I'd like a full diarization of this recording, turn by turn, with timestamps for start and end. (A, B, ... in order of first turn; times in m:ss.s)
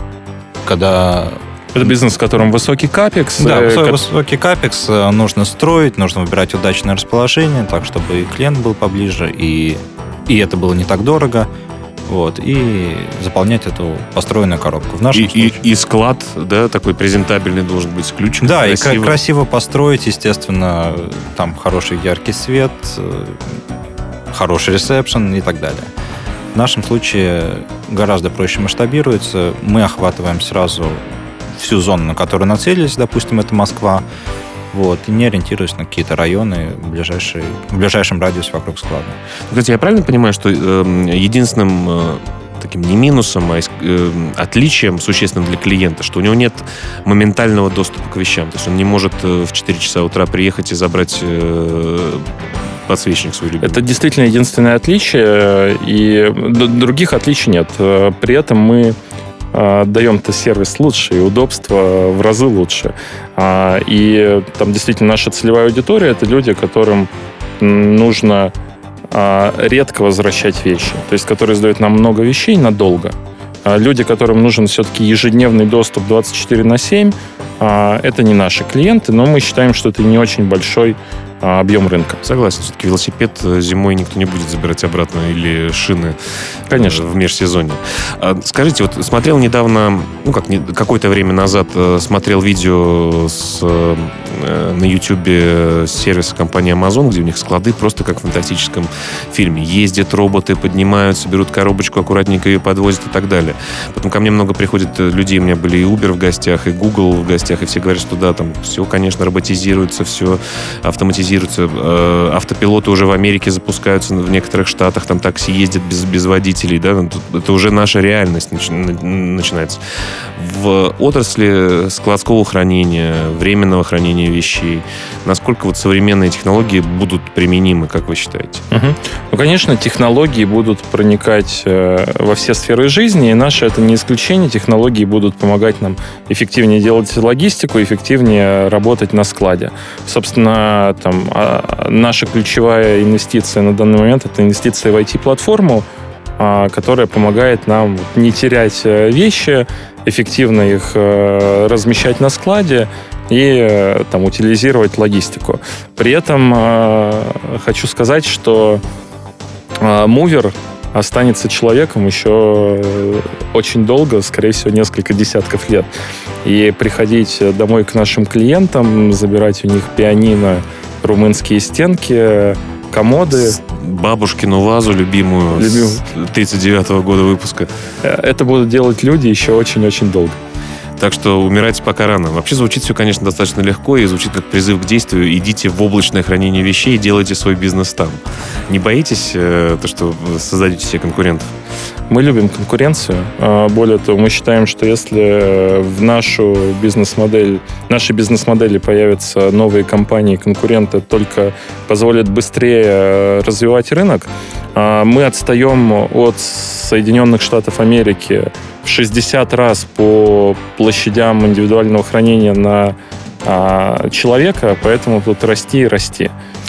0:00.6-0:01.4 A
0:01.7-0:04.0 B
0:03.4-0:11.5 A
0:12.1-0:15.6 A
0:15.1-0:19.2 C
0:18.4-0:23.6 A
0:24.3-0:25.9 A
0:26.5-0:31.0 A
0:31.5-0:34.0 A
0:34.7-0:39.2 A
0:39.5-0:52.3 C
0:52.9-0:53.8 C
0:53.6-0:59.0 B
0:59.5-1:08.5 B
1:09.1-1:22.2 B
1:22.2-1:26.2 C
1:26.7-1:27.0 B
1:26.7-1:59.8 C
2:00.4-2:08.6 C
2:08.7-2:25.8 B
2:26.4-2:38.8 B
2:39.8-2:45.9 B
2:46.4-2:53.6 B
2:53.3-2:57.7 C
2:55.5-2:56.0 B
2:58.0-3:00.4 B
3:01.0-3:11.5 C
3:12.1-3:36.3 B